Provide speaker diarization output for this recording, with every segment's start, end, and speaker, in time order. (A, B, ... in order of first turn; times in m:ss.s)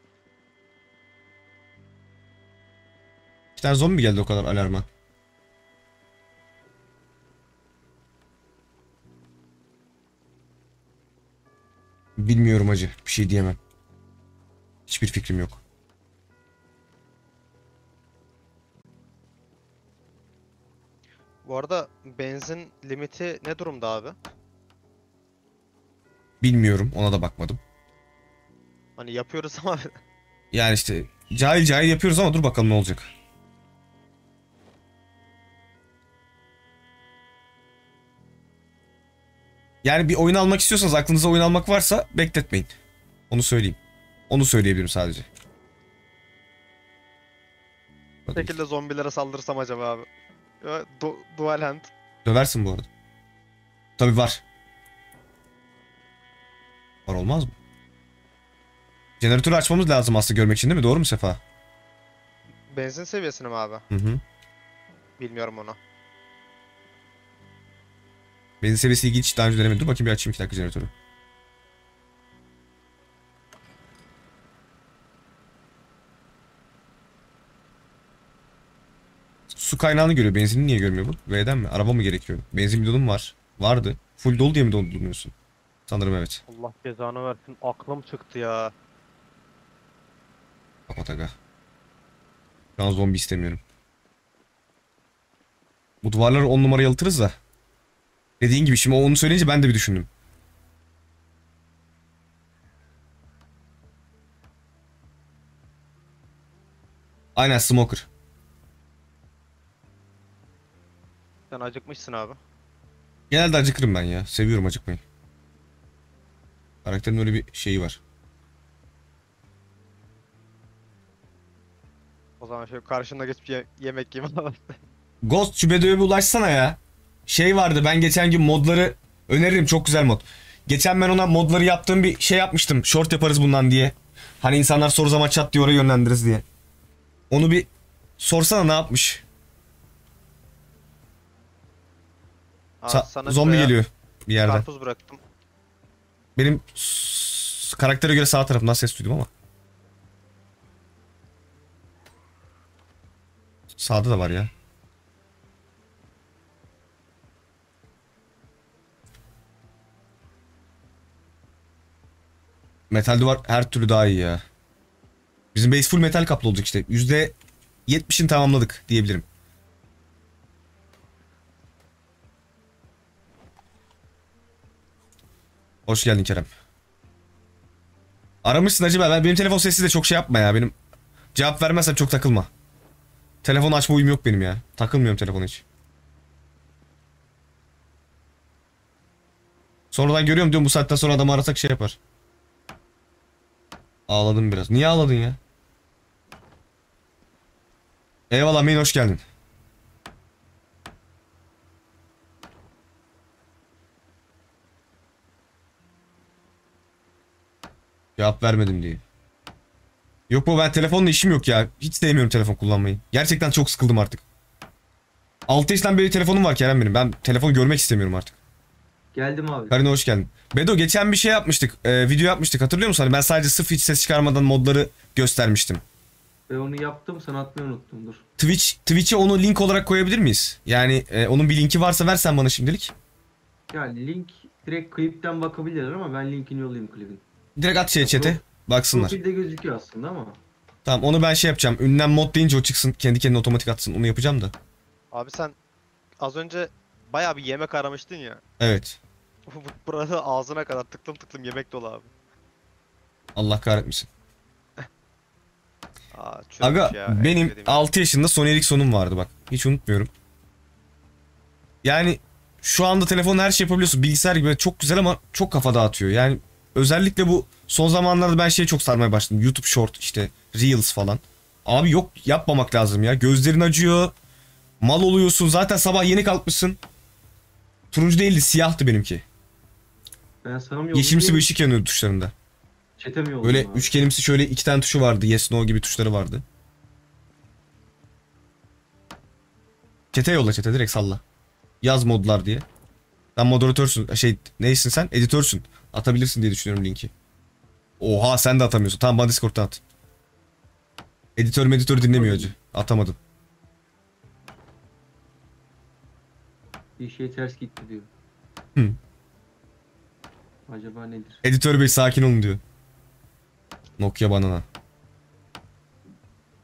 0:03.6-0:04.9 A
0:12.2-0:13.6 A
0:14.9-0:15.6 A
0:21.4-0:24.2 B
0:26.4-0:27.6 A
0:29.0-0:30.0 B
0:30.5-0:33.1 A
0:39.8-0:42.7 A
0:43.3-0:43.8 A
0:44.3-0:45.3 A
0:48.3-0:48.6 A
0:48.3-0:50.1 B
0:50.6-0:51.9 B
0:52.2-0:52.9 A
0:54.0-0:54.4 A
0:57.1-0:57.5 A
0:59.2-1:01.4 A
1:02.7-1:03.8 B
1:03.9-1:04.2 A
1:05.2-1:05.8 B
1:08.6-1:10.9 A
1:19.5-1:25.3 A
1:25.9-1:26.4 A
1:26.5-1:28.7 B
1:30.9-1:31.4 A
1:32.8-1:33.6 A
1:36.0-1:37.4 A
1:38.4-1:40.1 A
1:47.4-1:48.1 A
1:51.5-1:52.4 B
1:53.3-1:55.0 A
1:56.8-1:58.0 A
2:02.4-2:04.8 B
2:05.2-2:16.4 A
2:17.3-2:19.2 A
2:22.8-2:23.8 B
2:22.9-2:24.6 A
2:24.4-2:25.2 B
2:26.4-2:29.3 A
2:33.7-2:34.5 A
2:42.9-2:44.4 A
2:45.5-2:47.4 A
2:47.9-2:49.2 A
2:55.9-2:56.5 A
2:58.4-3:00.7 A
3:01.3-3:02.5 A
3:03.4-3:05.6 A
3:09.9-3:12.0 A
3:14.1-3:15.4 A
3:18.3-3:19.2 A
3:28.2-3:29.0 A
3:30.3-3:34.2 A
3:35.5-3:38.4 A
3:39.1-3:39.8 C
3:39.7-3:45.8 A
3:46.5-3:48.3 C
3:48.4-3:52.9 A
3:53.7-3:57.2 C
3:57.6-3:59.2 A
3:58.0-3:58.4 C
3:58.9-4:00.4 C
4:00.8-4:04.5 A
4:05.1-4:05.6 B
4:06.2-4:08.4 B
4:08.6-4:09.0 A
4:09.5-4:12.1 B
4:13.4-4:14.1 A
4:16.1-4:17.9 B
4:16.6-4:20.1 A
4:21.8-4:34.1 A
4:34.8-4:36.8 A
4:37.9-4:39.2 A
4:40.4-4:41.5 C
4:40.9-4:42.3 A
4:43.0-4:43.9 C
4:43.4-4:46.4 A
4:50.1-4:51.2 A
4:51.8-4:52.7 A
4:53.4-4:57.1 A
4:58.0-4:59.8 A
5:01.4-5:03.2 A
5:02.1-5:02.5 C
5:07.0-5:08.1 C
5:10.7-5:11.4 C
5:11.4-5:12.6 A
5:14.0-5:14.7 A